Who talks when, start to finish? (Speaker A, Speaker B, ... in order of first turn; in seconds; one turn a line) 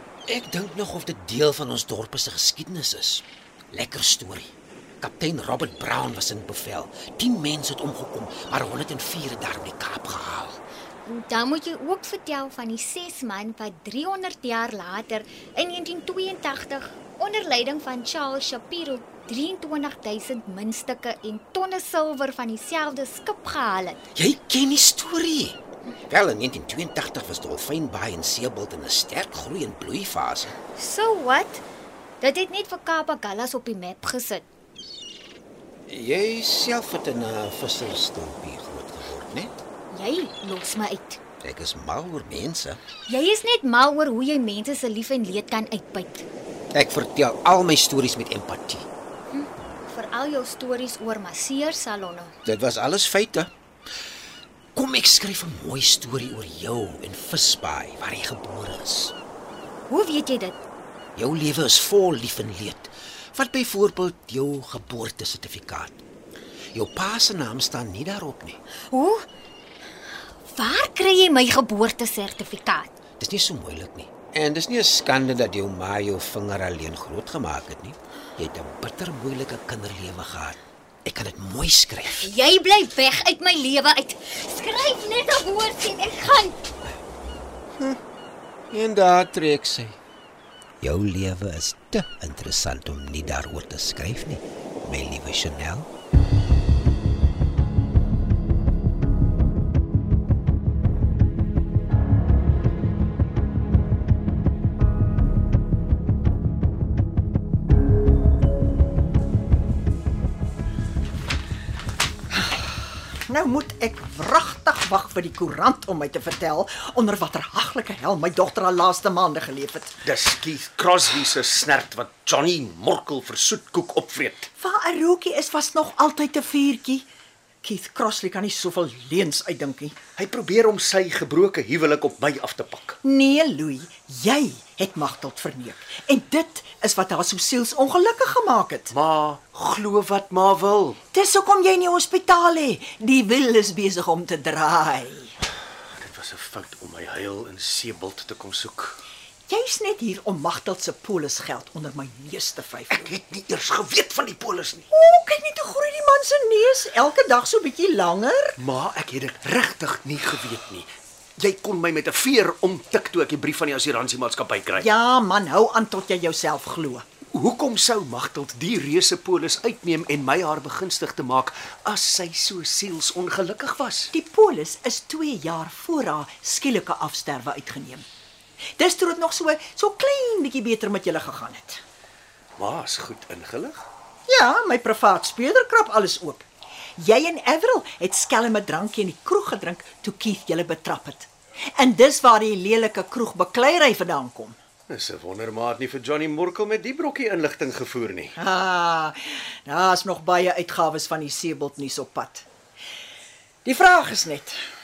Speaker A: 0.3-10.6
Speaker B: 11.1-24.0
Speaker A: 24.1-25.6
Speaker A: 26.1-30.6
Speaker B: 30.7-31.6
Speaker B: 32.2-34.5
Speaker A: 35.9-39.5
Speaker B: 39.9-41.2
Speaker A: 41.4-42.8
Speaker B: 43.1-46.2
Speaker A: 46.7-48.9
Speaker B: 49.3-52.3
Speaker A: 52.5-53.5
Speaker A: 54.8-59.1
Speaker B: 59.9-60.6
Speaker A: 61.2-66.0
Speaker A: 66.7-68.6
Speaker B: 68.9-69.3
Speaker B: 70.5-72.9
Speaker A: 73.2-82.3
Speaker B: 82.2-86.6
Speaker A: 88.7-90.0
Speaker A: 90.8-95.9
Speaker C: 112.3-112.7
Speaker C: 113.3-120.0
Speaker D: 120.0-124.5
Speaker C: 124.6-127.1
Speaker C: 127.6-130.0
Speaker D: 130.2-133.0
Speaker C: 133.0-138.9
Speaker D: 138.9-141.0
Speaker C: 141.1-145.3
Speaker D: 146.0-149.0
Speaker C: 149.5-153.1
Speaker D: 152.9-154.9
Speaker C: 154.9-158.6
Speaker D: 158.6-164.9
Speaker C: 164.8-167.1
Speaker D: 167.3-174.1
Speaker C: 174.1-178.1
Speaker C: 178.8-181.8
Speaker D: 182.6-183.8
Speaker C: 184.3-186.5
Speaker C: 187.0-194.6
Speaker D: 194.9-198.3
Speaker C: 198.4-202.5
Speaker C: 203.7-204.6